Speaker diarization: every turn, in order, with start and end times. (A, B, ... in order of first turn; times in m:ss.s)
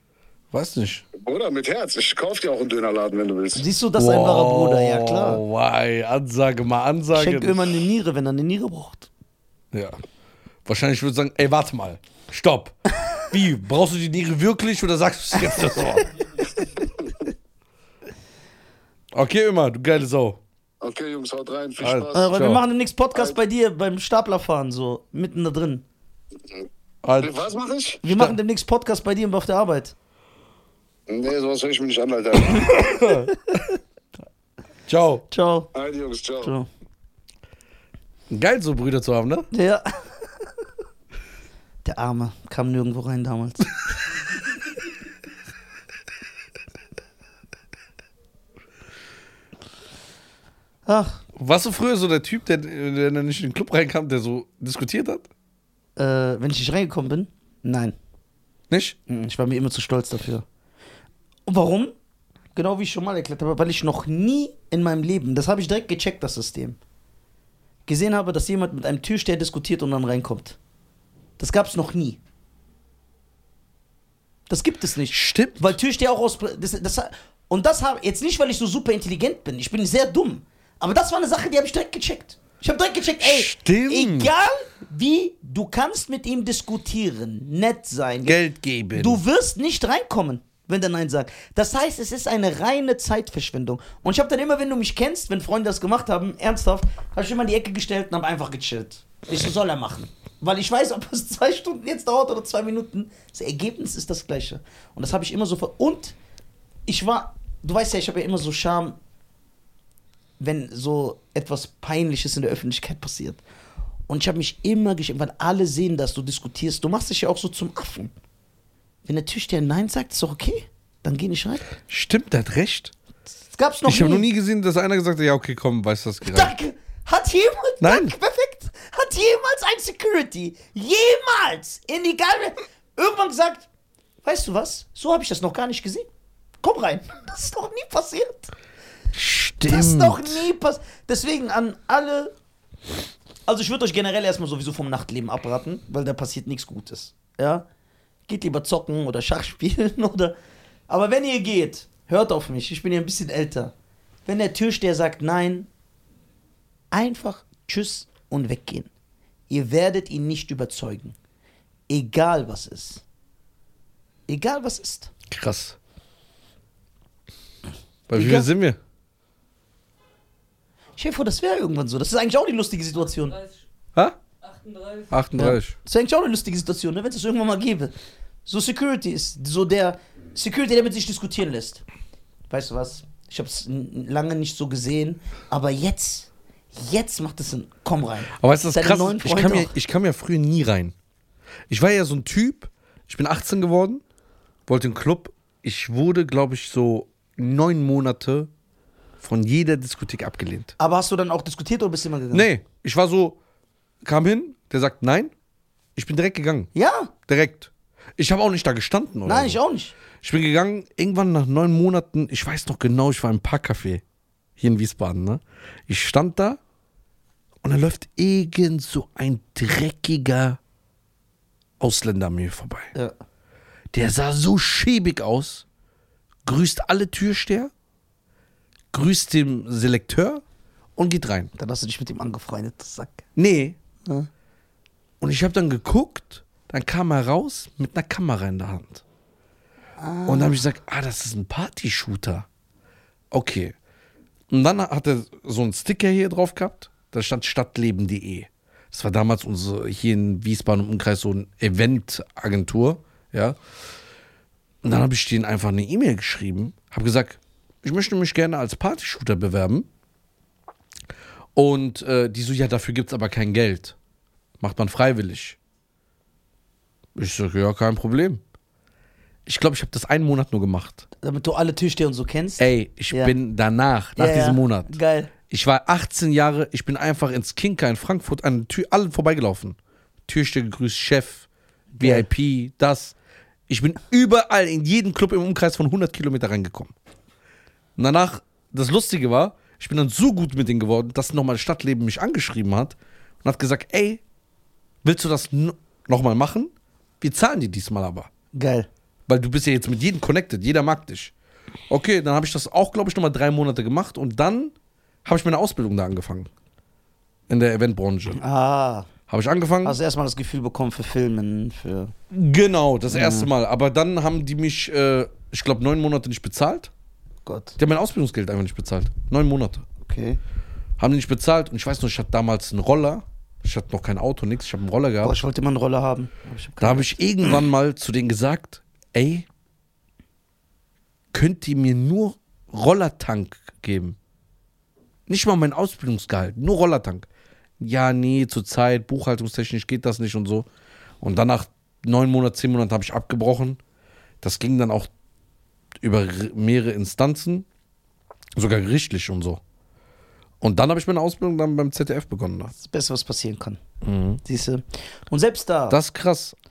0:00.5-0:01.0 A
0:01.2-0:03.6 B
0:03.6-0:05.4 C
0:04.0-0:07.7 A
0:07.1-0:09.1 C
0:10.6-0:16.1 A
0:19.1-0:20.4 A
0:20.8-0:22.3 B
0:21.8-0:22.6 A
0:22.1-0:25.8 C
0:27.0-0:27.4 A
0:27.2-0:28.0 B
0:28.0-0:29.9 C
0:28.0-0:28.4 A
0:31.1-0:32.9 B
0:32.8-0:33.3 A
0:33.1-0:33.8 C
0:34.9-0:35.2 A
0:35.3-0:35.7 C
0:35.7-0:36.5 B
0:36.4-0:36.7 C
0:38.3-0:39.5 A
0:39.5-0:39.9 C
0:41.8-0:43.9 C
0:50.8-0:51.2 C
0:51.4-0:55.3 A
0:56.0-0:57.9 C
0:58.7-0:59.0 A
0:59.1-1:00.4 C
1:01.4-1:01.9 C
1:02.5-1:06.8 C
1:07.8-1:10.6 C
1:11.4-1:12.2 C
1:14.5-1:28.4 C
1:15.1-1:15.7 A
1:23.2-1:24.3 A
1:28.2-1:29.2 A
1:28.9-1:46.2 C
1:46.8-1:49.0 C
1:50.4-1:53.4 C
1:54.1-1:58.1 C
1:59.0-2:01.6 C
2:01.9-2:02.9 A
2:03.5-2:04.3 C
2:03.8-2:06.5 A
2:06.2-2:13.7 C
2:07.8-2:08.1 A
2:14.2-2:16.1 C
2:16.6-2:18.5 C
2:19.1-2:20.4 A
2:19.6-2:22.3 C
2:23.5-2:27.6 C
2:28.3-2:30.4 C
2:30.9-2:33.7 C
2:34.2-2:35.7 C
2:36.9-2:38.9 C
2:39.5-2:41.1 C
2:41.9-2:43.0 C
2:44.3-2:45.1 C
2:45.3-2:45.8 A
2:48.1-2:48.8 A
2:48.1-2:48.5 C
2:51.0-2:53.4 C
2:55.0-2:55.8 A
2:55.3-2:57.9 C
2:58.4-3:01.8 C
3:02.5-3:09.7 C
3:08.4-3:10.9 A
3:11.7-3:14.0 A
3:14.7-3:18.5 A
3:19.2-3:20.7 A
3:20.8-3:22.5 C
3:22.3-3:23.4 A
3:24.0-3:25.3 A
3:26.0-3:26.7 A
3:26.7-3:27.1 C
3:27.2-3:29.6 A
3:29.2-3:29.9 C
3:30.2-3:34.0 A
3:34.6-3:36.6 A
3:37.6-3:40.6 A
3:41.8-3:42.9 A
3:43.9-3:45.6 A
3:46.4-3:47.7 A
3:48.9-3:50.4 A
3:51.0-3:51.5 A
3:51.6-3:53.2 C
3:53.3-3:53.8 A
3:55.2-3:59.0 A
4:00.0-4:00.6 C
4:00.2-4:02.5 A
4:03.3-4:03.7 A
4:04.5-4:13.6 A
4:14.8-4:19.9 A
4:21.6-4:24.0 A
4:24.6-4:25.6 A
4:27.2-4:28.4 A
4:29.4-4:31.0 A
4:31.2-4:33.3 C
4:32.6-4:41.5 A
4:34.2-4:35.3 C
4:41.9-4:42.3 C
4:42.0-4:43.2 A
4:43.7-4:46.9 A
4:48.0-4:54.2 A
4:55.0-4:58.3 A
4:58.5-4:58.9 C
4:59.3-5:01.3 A
5:01.9-5:04.7 A
5:05.2-5:06.5 A
5:07.5-5:08.4 A
5:08.4-5:09.1 C
5:09.3-5:10.0 A
5:09.8-5:12.1 C
5:12.3-5:16.9 A
5:13.1-5:13.5 C
5:17.4-5:17.8 C
5:17.8-5:19.8 A
5:20.0-5:20.4 C
5:21.0-5:25.4 A
5:25.2-5:27.6 C
5:26.8-5:29.5 A
5:31.3-5:34.2 A
5:35.3-5:37.3 A
5:37.8-5:40.7 A
5:41.2-5:43.8 A
5:44.4-5:45.1 A
5:46.0-5:47.7 A
5:48.6-5:49.6 A
5:50.6-5:52.7 A
5:52.7-5:53.8 C
5:54.0-5:54.4 A
5:54.4-5:56.0 C
5:55.9-5:56.5 A